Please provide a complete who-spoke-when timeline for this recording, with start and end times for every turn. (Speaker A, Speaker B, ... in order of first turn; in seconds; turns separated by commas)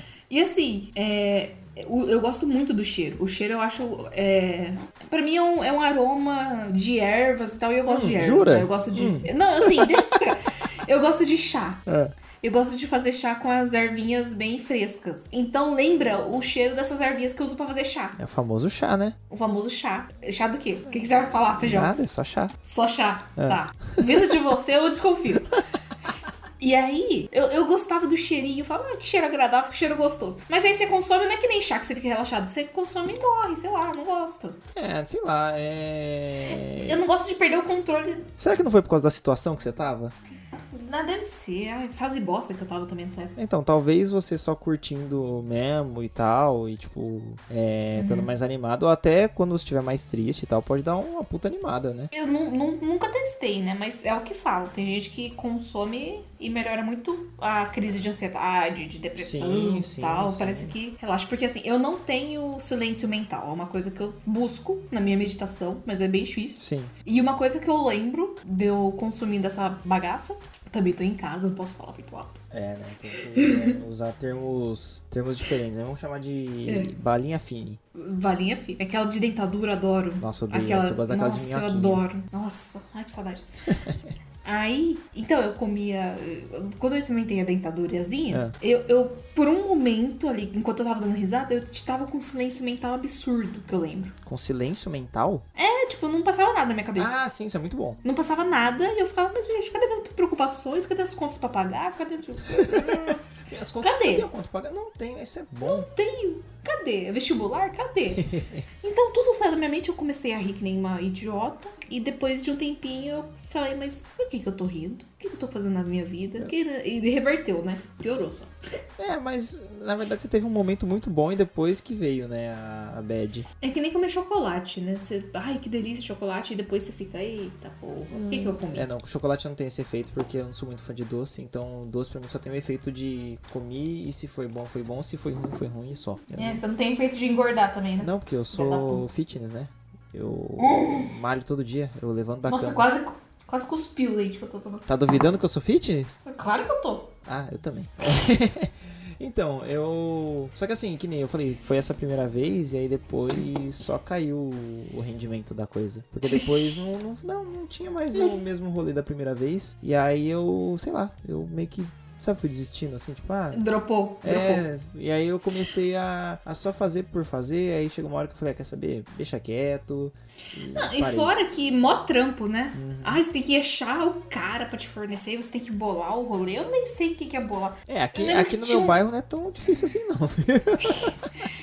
Speaker A: 0.3-11.8, Speaker B: 7.9-10.2, Speaker B: 11.9-12.1, Speaker A: 12.4-18.2, Speaker B: 18.2-19.2, Speaker A: 19.3-21.9, Speaker B: 21.6-22.6, Speaker A: 22.6-25.6, Speaker B: 23.4-24.3, Speaker A: 26.6-34.6, Speaker B: 34.8-37.0, Speaker A: 36.5-38.3, Speaker B: 38.4-40.1, Speaker A: 40.7-43.4, Speaker B: 43.4-52.1, Speaker A: 48.0-48.3, Speaker A: 52.1-72.4, Speaker B: 59.2-60.7, Speaker B: 66.6-66.9, Speaker B: 72.5-77.8, Speaker A: 73.3-73.8, Speaker A: 78.0-83.5, Speaker B: 80.2-82.0, Speaker B: 83.7-84.0, Speaker A: 84.4-94.1, Speaker B: 94.2-95.5, Speaker A: 95.6-97.2, Speaker B: 97.0-98.0, Speaker A: 98.0-103.2, Speaker B: 102.5-105.9, Speaker A: 103.8-104.3, Speaker A: 105.6-118.5, Speaker B: 108.2-108.6, Speaker B: 119.0-123.5, Speaker A: 123.6-128.9, Speaker B: 128.1-136.6, Speaker A: 136.4-139.0, Speaker B: 138.0-142.9, Speaker A: 140.6-141.1, Speaker A: 142.5-144.8, Speaker B: 144.9-146.2, Speaker A: 146.3-147.1, Speaker B: 147.3-163.6, Speaker A: 156.3-156.8, Speaker A: 163.5-164.7, Speaker B: 164.2-171.3, Speaker A: 170.6-179.0, Speaker B: 172.7-173.2, Speaker B: 177.9-181.2, Speaker A: 180.8-181.2